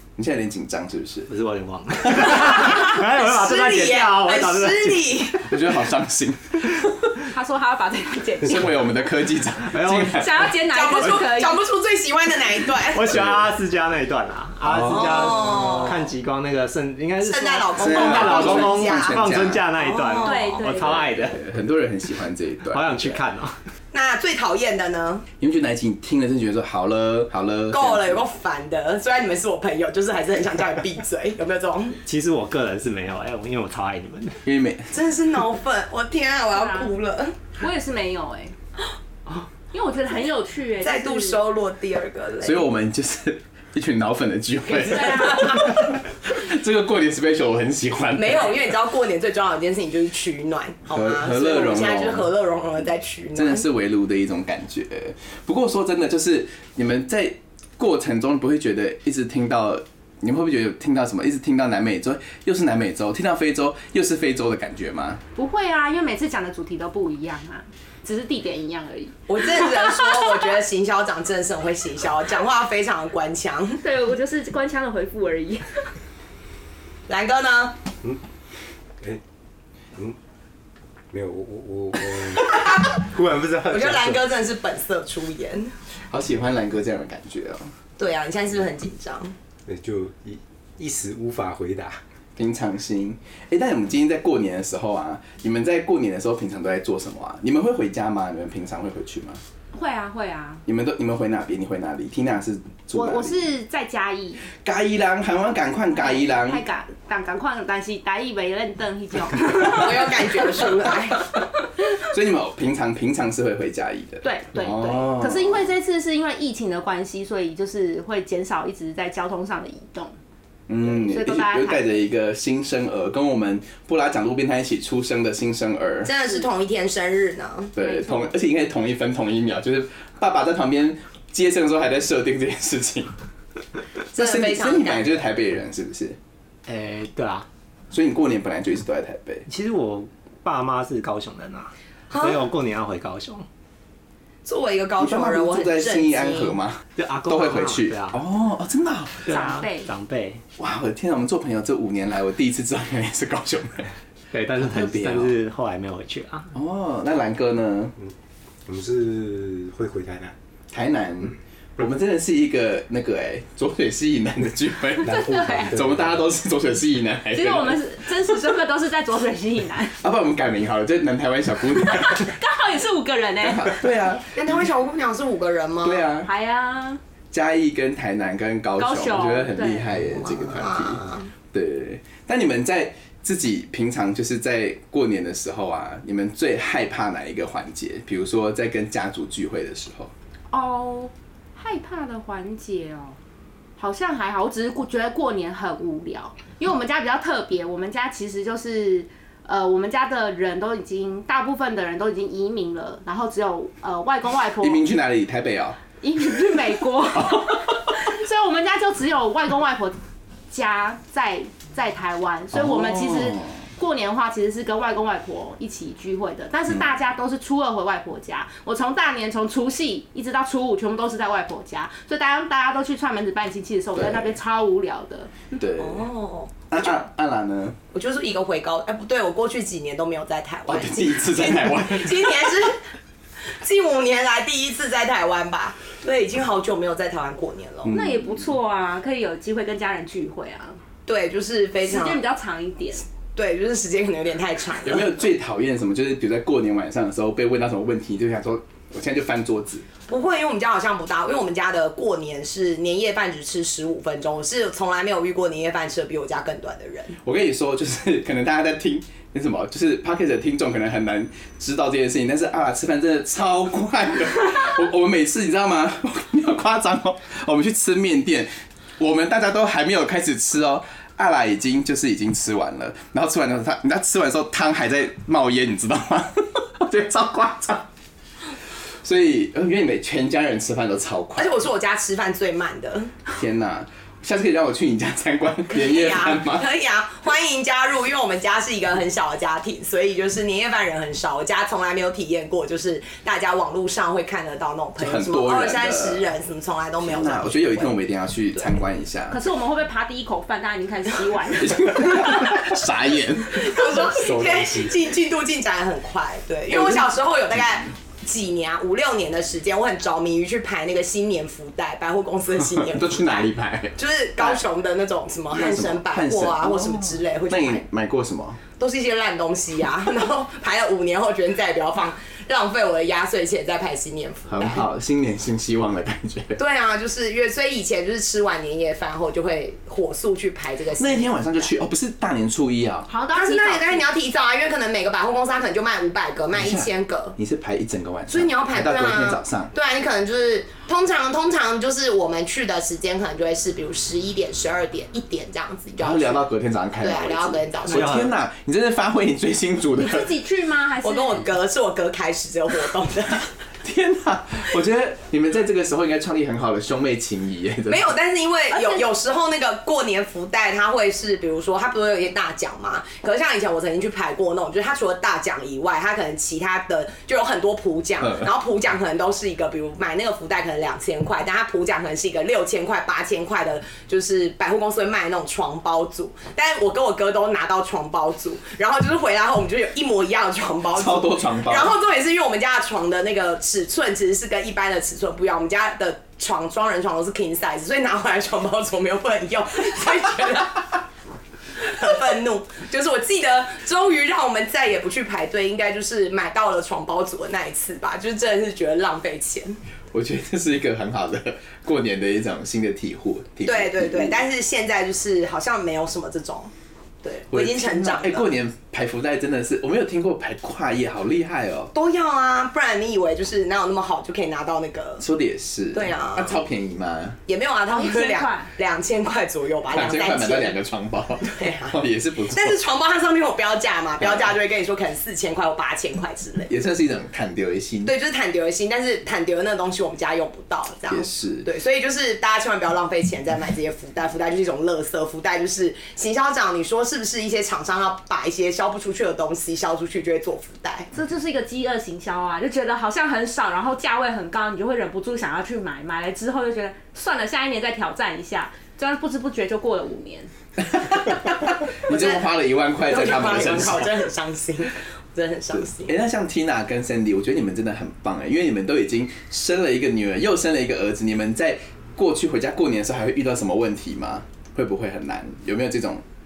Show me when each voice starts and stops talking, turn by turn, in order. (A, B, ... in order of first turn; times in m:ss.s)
0:00.2-0:01.3 A
0:01.3-0:05.1 B
0:03.1-0:05.4 C
0:05.4-0:07.1 A
0:07.3-0:08.9 D
0:08.4-0:10.5 A
0:09.6-0:10.3 B
0:10.1-0:11.6 D
0:10.6-0:13.1 C
0:12.9-0:21.4 B
0:13.1-0:13.5 A
0:14.7-0:15.3 A
0:15.0-0:15.9 C
0:17.2-0:19.2 C
0:17.8-0:19.7 A
0:19.8-0:20.6 C
0:20.2-0:21.1 D
0:20.8-0:23.2 A
0:22.7-0:23.6 B
0:23.9-0:25.2 C
0:25.4-0:28.2 A
0:27.7-0:32.0 C
0:32.0-0:34.4 B
0:34.4-0:34.9 A
0:34.9-0:37.3 C
0:36.5-0:36.9 D
0:37.6-0:38.5 D
0:39.7-0:41.4 D
0:40.8-0:42.6 C
0:42.4-0:48.7 A
0:44.9-0:45.6 D
0:48.1-0:53.6 C
0:50.9-0:52.3 A
0:53.4-1:05.2 A
1:05.4-1:10.5 D
1:09.3-1:13.8 C
1:13.8-1:15.9 D
1:17.1-1:17.8 C
1:21.1-1:24.3 E
1:23.7-1:25.7 C
1:26.1-1:27.7 A
1:28.0-1:29.3 C
1:29.6-1:32.0 E
1:32.4-1:39.4 A
1:39.7-1:40.6 D
1:40.6-1:43.4 A
1:42.9-1:44.4 D
1:44.6-1:46.6 A
1:45.9-1:50.7 D
1:49.6-1:51.2 C
1:52.0-1:55.6 A
1:54.2-2:00.1 D
2:00.7-2:06.1 A
2:00.9-2:02.0 D
2:06.0-2:07.7 C
2:07.8-2:13.1 A
2:07.8-2:08.3 D
2:14.1-2:16.2 A
2:14.1-2:15.2 C
2:16.7-2:17.5 B
2:17.9-2:19.4 A
2:19.5-2:23.4 B
2:22.1-2:22.4 C
2:24.4-2:26.6 C
2:25.0-2:29.3 A
2:27.0-2:28.2 B
2:29.3-2:30.4 B
2:29.3-2:29.9 D
2:30.6-2:33.9 A
2:34.3-2:36.5 B
2:34.6-2:35.3 A
2:36.5-2:37.9 A
2:38.6-2:40.3 E
2:40.7-2:47.8 A
2:45.0-2:45.7 D
2:45.0-2:46.2 E
2:47.3-2:50.0 D
2:50.0-2:52.3 A
2:51.7-2:53.8 D
2:53.4-2:54.6 A
2:54.3-2:56.0 C
2:55.8-2:56.3 A
2:56.2-2:57.0 D
2:57.3-3:10.1 A
2:58.8-3:00.0 D
3:00.1-3:01.3 C
3:10.5-3:13.2 D
3:13.8-3:24.9 D
3:24.6-3:25.8 A
3:26.0-3:30.0 D
3:27.2-3:27.6 A
3:30.5-3:45.3 D
3:32.5-3:33.6 A
3:44.0-3:44.4 A
3:45.6-3:46.1 A
3:45.8-3:46.9 C
3:46.7-3:47.8 A
3:47.9-3:52.8 C
3:50.7-3:52.4 A
3:53.6-3:58.0 C
3:57.9-3:58.4 A
3:57.9-4:00.8 D
4:01.0-4:02.2 C
4:01.8-4:03.0 D
4:03.4-4:05.2 C
4:04.8-4:09.8 A
4:10.1-4:17.2 C
4:17.2-4:37.9 A
4:39.0-4:41.6 A
4:41.4-4:43.1 C
4:43.3-4:46.6 A
4:45.7-4:58.0 C
4:55.0-4:56.2 A
4:57.0-4:59.4 A
4:59.3-5:02.8 D
5:01.6-5:03.7 A
5:03.5-5:17.8 C
5:04.1-5:05.0 E
5:06.7-5:07.1 A
5:12.7-5:14.6 A
5:15.5-5:18.6 A
5:18.8-5:24.9 C
5:24.5-5:26.6 A
5:26.6-5:31.7 C
5:31.0-5:33.1 A
5:33.1-5:34.1 D
5:33.3-5:37.4 C
5:36.5-5:39.7 A
5:38.3-5:46.4 C
5:46.0-5:50.3 A
5:47.0-5:48.2 C
5:47.9-5:48.3 B
5:50.0-5:51.5 D
5:51.0-5:53.5 C
5:53.8-5:58.1 A
5:57.9-6:31.0 C
5:58.7-5:59.0 D
6:20.9-6:21.9 A
6:31.8-6:39.8 C
6:40.1-6:44.4 A
6:43.6-6:46.7 C
6:47.2-6:48.5 C
6:47.5-6:51.9 A
6:51.9-6:55.2 C
6:55.2-6:57.4 A
6:55.9-6:56.6 C
6:57.5-7:00.8 C
6:57.9-6:58.7 D
6:59.9-7:02.8 A
7:01.5-7:02.0 C
7:02.5-7:06.7 C
7:04.2-7:04.5 A
7:06.7-7:08.1 A
7:08.0-7:21.1 C
7:11.1-7:11.7 A
7:21.1-7:30.5 D
7:30.9-7:31.5 A
7:32.0-7:34.1 A
7:32.1-7:32.4 C
7:33.0-7:36.1 C
7:35.7-7:46.2 A